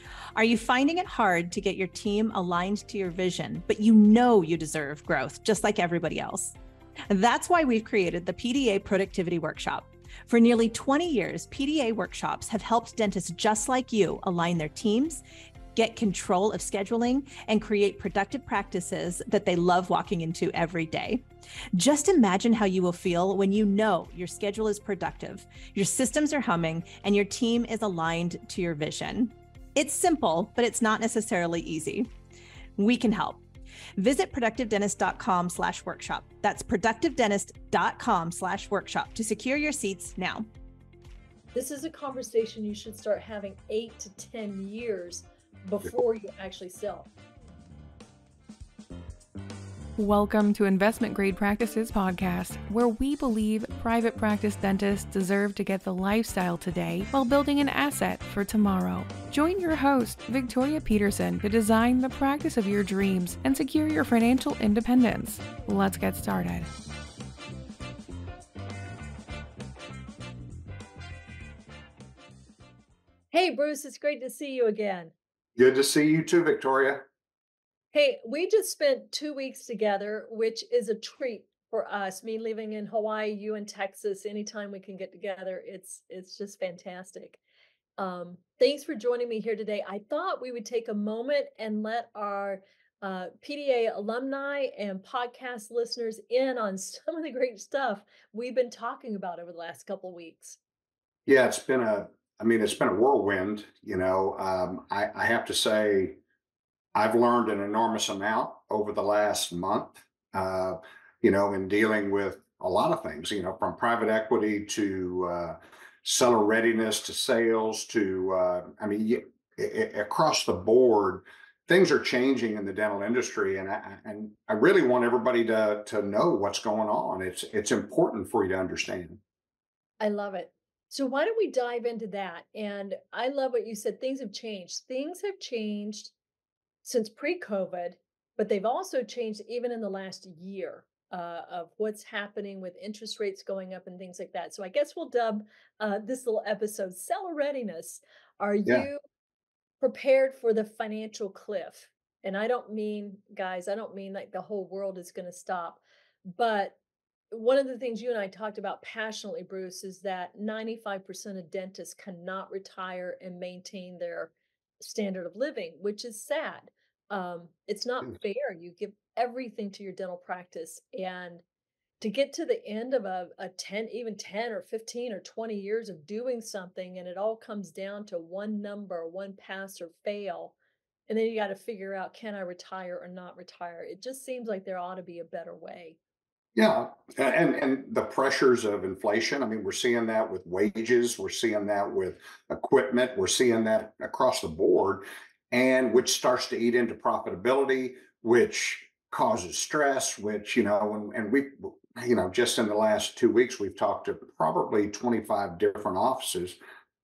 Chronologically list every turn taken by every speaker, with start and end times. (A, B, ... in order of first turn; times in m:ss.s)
0:00.4-0:06.6 A
0:07.1-0:15.2 A
0:15.8-0:21.2 A
0:21.8-0:32.1 A
0:32.8-0:33.4 A
0:34.0-0:40.5 A
0:41.5-0:47.1 B
0:50.0-1:06.7 C
1:13.3-1:15.1 B
1:15.6-1:17.1 D
1:17.9-1:27.4 B
1:28.0-1:40.6 B
1:41.3-1:46.2 D
1:47.0-2:09.2 D
2:10.0-2:16.1 B
2:16.8-2:29.0 B
2:29.8-2:36.8 B
2:37.3-2:51.4 B
2:52.0-3:00.6 B
3:01.1-3:06.0 B
3:06.6-3:26.6 D